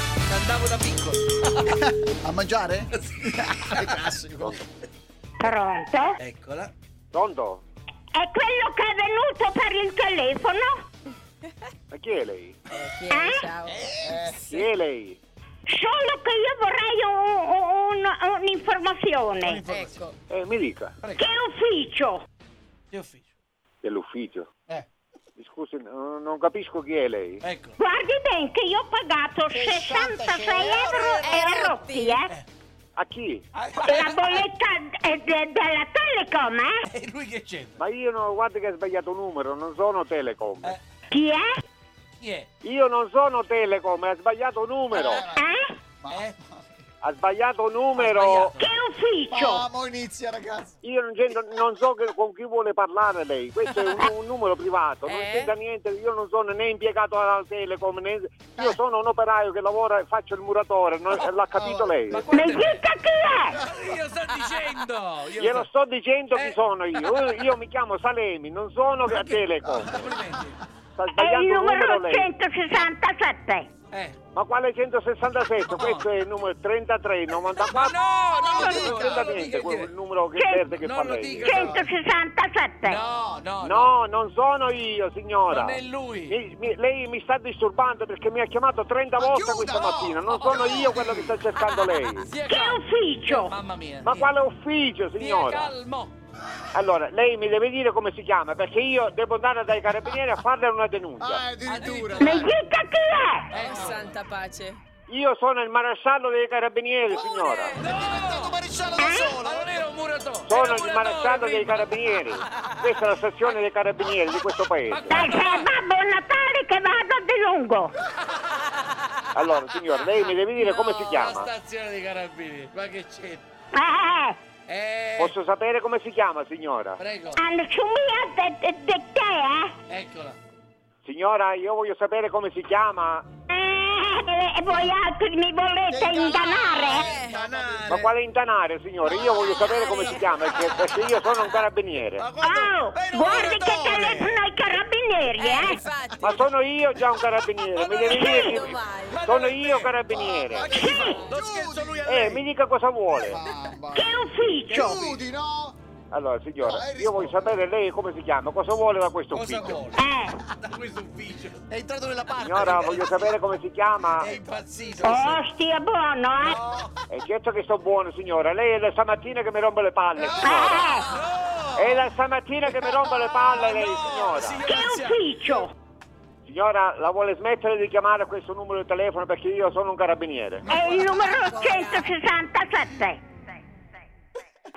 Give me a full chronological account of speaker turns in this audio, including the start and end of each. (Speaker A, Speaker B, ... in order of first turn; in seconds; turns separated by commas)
Speaker A: 0.3-1.4, Speaker B: 1.7-2.9, Speaker A: 3.1-4.5, Speaker B: 3.5-4.6, Speaker C: 5.4-6.2, Speaker A: 6.2-6.7, Speaker D: 7.1-7.6, Speaker C: 8.1-10.8, Speaker D: 11.9-12.6, Speaker E: 12.7-14.7, Speaker C: 13.1-13.5, Speaker A: 13.7-14.2, Speaker D: 14.1-15.2, Speaker C: 15.7-19.6, Speaker A: 19.4-20.0, Speaker E: 19.7-20.1, Speaker D: 20.3-21.0, Speaker A: 21.0-21.3, Speaker C: 21.2-22.2, Speaker A: 22.9-23.2, Speaker D: 23.8-24.5, Speaker D: 25.4-27.4, Speaker A: 27.4-27.8, Speaker C: 27.8-32.3, Speaker A: 29.5-31.3, Speaker E: 31.2-32.2, Speaker D: 33.0-33.4, Speaker A: 33.5-34.5, Speaker C: 33.8-36.8, Speaker A: 36.9-37.8, Speaker D: 37.8-40.8, Speaker C: 41.1-41.6, Speaker A: 42.2-42.5, Speaker D: 42.6-45.2, Speaker B: 44.9-46.6, Speaker C: 45.4-45.7, Speaker A: 46.1-46.4, Speaker D: 47.0-48.6, Speaker A: 48.0-48.7, Speaker C: 48.6-49.6, Speaker B: 49.3-50.8, Speaker D: 50.8-62.3, Speaker A: 55.0-55.5, Speaker B: 61.5-62.0, Speaker A: 62.1-62.8, Speaker C: 62.3-63.6, Speaker A: 63.6-65.7, Speaker D: 65.4-70.1, Speaker A: 66.3-67.0, Speaker B: 69.1-70.4, Speaker A: 69.9-70.6, Speaker D: 71.0-72.3, Speaker C: 71.2-73.7, Speaker A: 73.9-74.2, Speaker D: 74.3-78.0, Speaker A: 75.7-76.1, Speaker A: 77.6-79.9, Speaker B: 78.3-79.2, Speaker D: 78.6-81.7, Speaker C: 80.4-80.7, Speaker A: 80.7-81.9, Speaker C: 81.4-83.0, Speaker A: 82.8-84.0, Speaker D: 83.6-92.3, Speaker A: 85.5-86.4, Speaker B: 89.2-91.3, Speaker A: 90.3-94.3, Speaker C: 92.5-93.5, Speaker D: 94.0-95.7, Speaker A: 95.2-96.1, Speaker D: 96.7-101.4, Speaker B: 101.2-102.5, Speaker A: 101.6-102.5, Speaker C: 102.2-103.5, Speaker A: 103.5-104.2, Speaker E: 103.5-104.8, Speaker D: 105.1-107.8, Speaker E: 107.3-107.8, Speaker A: 107.8-108.6, Speaker B: 107.8-109.8, Speaker C: 109.0-109.4, Speaker A: 109.4-111.9, Speaker D: 110.5-115.2, Speaker A: 112.5-112.9, Speaker A: 114.9-115.7, Speaker C: 115.1-117.9, Speaker D: 119.3-121.5, Speaker A: 120.3-123.4, Speaker C: 123.7-124.4, Speaker A: 124.7-125.3, Speaker D: 125.2-127.0, Speaker A: 127.0-127.4, Speaker C: 127.3-129.8, Speaker A: 129.9-130.4, Speaker D: 131.1-133.3, Speaker C: 133.5-137.2, Speaker B: 135.9-138.1, Speaker E: 136.9-137.4, Speaker A: 137.2-138.1, Speaker D: 137.9-142.3, Speaker E: 139.2-140.3, Speaker A: 140.4-141.1, Speaker A: 142.2-144.4, Speaker C: 142.4-145.8, Speaker E: 145.4-146.5, Speaker D: 146.2-150.8, Speaker A: 147.8-148.5, Speaker E: 148.0-149.2, Speaker C: 148.1-148.7, Speaker A: 149.1-152.4, Speaker B: 150.2-152.0, Speaker C: 150.9-151.2, Speaker D: 152.1-153.4, Speaker B: 153.2-155.8, Speaker C: 153.9-155.0, Speaker A: 154.7-155.2, Speaker D: 156.1-159.8, Speaker B: 156.6-157.5, Speaker A: 159.3-160.0, Speaker B: 159.6-159.9, Speaker C: 160.0-160.4, Speaker A: 160.6-161.8, Speaker B: 161.7-163.1, Speaker A: 162.4-163.2, Speaker D: 162.4-164.4, Speaker A: 164.2-165.4, Speaker B: 164.2-164.6, Speaker C: 165.0-166.6, Speaker A: 166.4-166.9, Speaker D: 167.1-171.0, Speaker B: 170.2-171.2, Speaker C: 170.4-171.1, Speaker A: 171.0-172.1, Speaker D: 171.8-174.6, Speaker A: 172.7-175.2, Speaker C: 174.7-175.7, Speaker D: 176.4-180.7, Speaker C: 180.7-183.2, Speaker E: 181.4-182.1